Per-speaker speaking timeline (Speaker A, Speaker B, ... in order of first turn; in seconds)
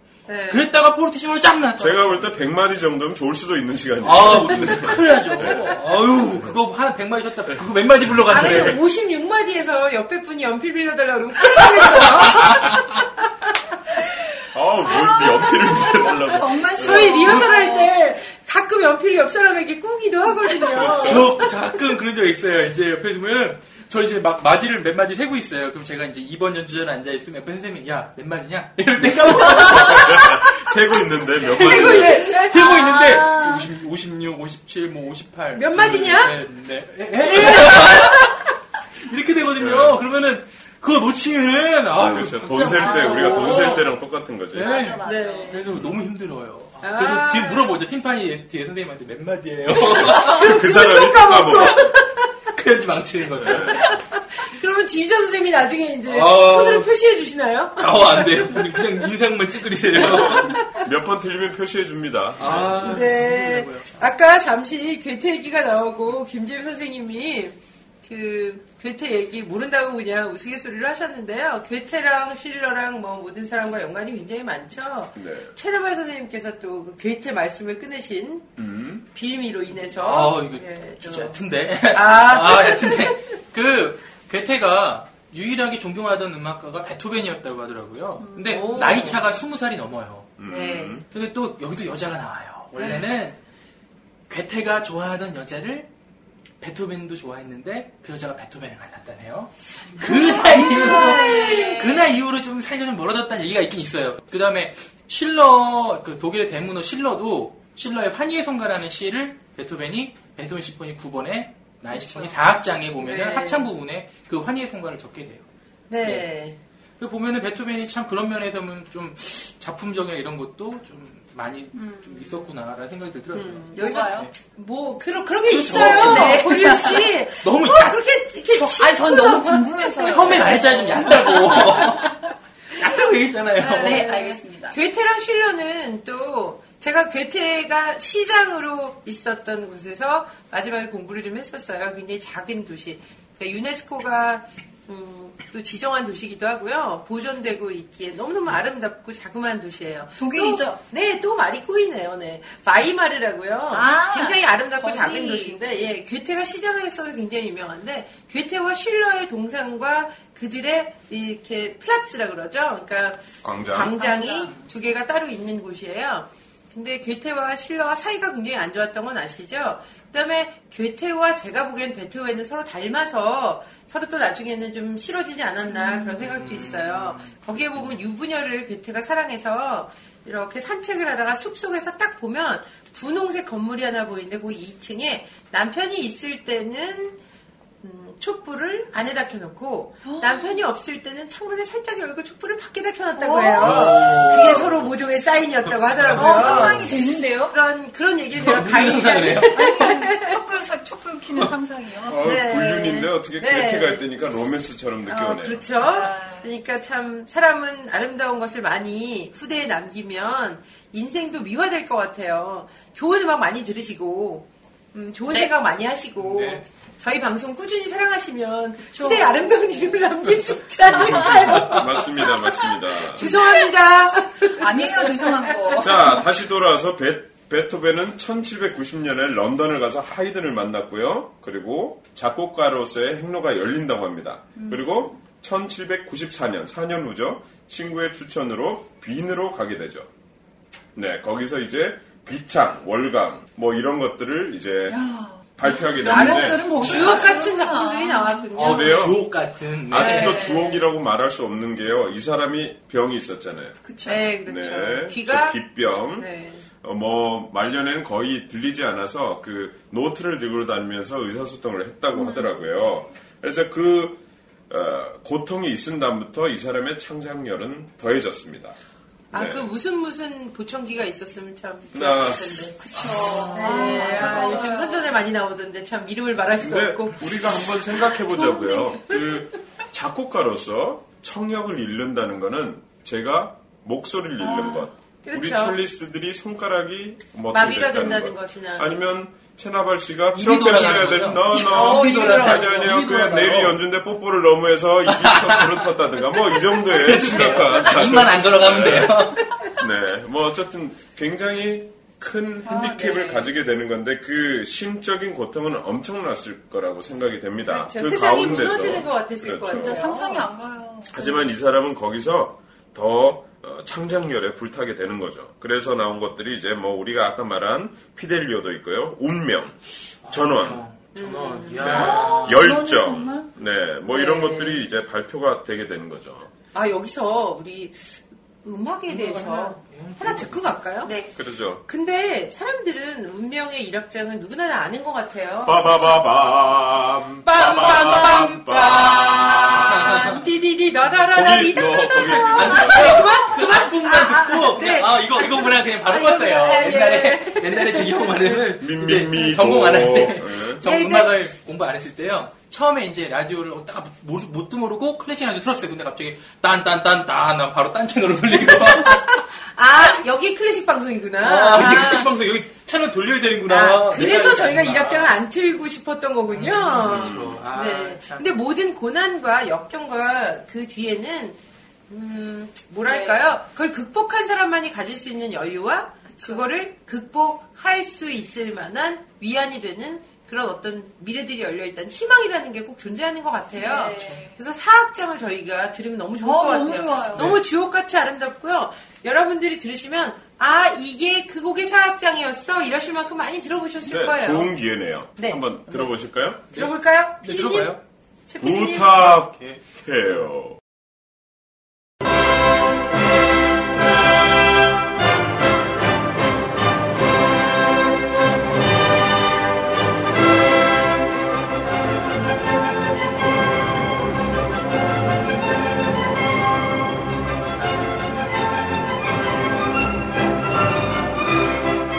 Speaker A: 0.3-0.7, 8.3-12.9, 16.8-21.6, 31.6-32.9, 35.5-36.4, 37.3-38.5, 43.4-43.8, 45.0-45.7, 46.8-47.7, 49.8-52.3, 53.7-59.0, 60.0-60.8, 62.8-78.5, 79.1-81.4, 81.9-83.2, 88.5-89.2, 90.5-91.0, 92.8-93.0, 100.5-101.9, 113.0-113.7, 115.9-116.6, 123.3-131.9, 133.6-187.2, 187.8-196.9, 197.5-200.4, 202.2-204.0, 205.1-225.9, 246.0-249.1, 250.0-250.8, 254.1-255.6, 256.2-256.6, 269.3-272.8, 273.5-279.3, 285.2-285.8, 287.5-288.9, 291.5-293.1, 302.7-303.5, 307.7-310.5, 321.1-322.4, 324.1-324.8, 326.7-331.1, 331.9-335.9, 337.4-348.7, 350.8-351.3, 358.7-362.3, 363.7-394.7, 395.4-396.1, 396.7-397.9, 398.5-399.3
Speaker B: 0.5-2.3, 4.0-8.8, 11.7-12.8, 21.0-30.4, 31.4-38.4, 39.0-43.9, 44.5-50.5, 52.5-54.0, 56.1-56.9, 57.8-60.6, 62.4-63.9, 80.0-90.4, 91.1-93.4, 94.3-95.9, 96.6-115.5, 117.0-124.3, 125.5-129.2, 130.0-132.1, 132.7-134.1, 176.0-177.9, 193.6-194.9, 195.7-196.9, 198.4-199.9, 216.2-216.6, 246.8-247.2, 248.6-250.5, 273.0-274.4, 290.3-293.8, 295.1-295.9, 296.5-299.5, 320.2-322.6, 329.1-330.6, 340.0-340.4, 342.2-359.4, 361.4-365.4, 366.5-368.5, 396.7-398.0, 399.2-399.9
Speaker C: 1.8-6.5, 14.5-17.4, 20.7-21.4, 29.0-32.3, 39.6-40.0, 42.0-44.8, 50.2-51.9, 53.4-53.9, 60.0-63.1, 75.2-75.5, 78.6-79.0, 90.4-91.1, 163.4-163.9, 196.4-196.7, 202.1-205.7, 221.0-223.3, 225.8-240.1, 240.9-245.0, 245.6-247.1, 248.6-249.2, 249.9-253.8, 254.4-256.3, 256.8-268.8, 269.3-269.7, 271.9-272.6, 276.6-310.2, 311.1-320.8, 321.8-326.5, 331.4-331.8, 335.6-340.3, 341.3-343.3, 348.8-350.8, 367.0-367.6, 394.0-396.6, 398.6-400.8
Speaker D: 14.8-17.9, 29.6-30.0, 32.0-33.7, 42.6-43.9, 44.5-45.6, 88.2-89.0, 100.0-101.9, 121.7-122.5, 123.7-124.3, 125.5-127.1, 128.7-132.2, 133.6-134.8, 150.2-150.8, 153.7-155.6, 163.8-164.7, 190.1-190.6, 193.2-193.8, 196.1-197.6, 199.5-202.3, 205.8-206.5, 218.9-220.1, 223.2-223.7, 224.4-226.3, 234.6-235.1, 244.9-248.5, 250.2-250.5, 253.8-254.3, 262.2-262.5, 272.8-275.2, 284.4-284.9, 302.6-303.0, 309.7-311.4, 321.8-323.5, 331.1-331.3, 373.1-373.4, 376.3-376.6, 383.7-384.6, 386.4-387.6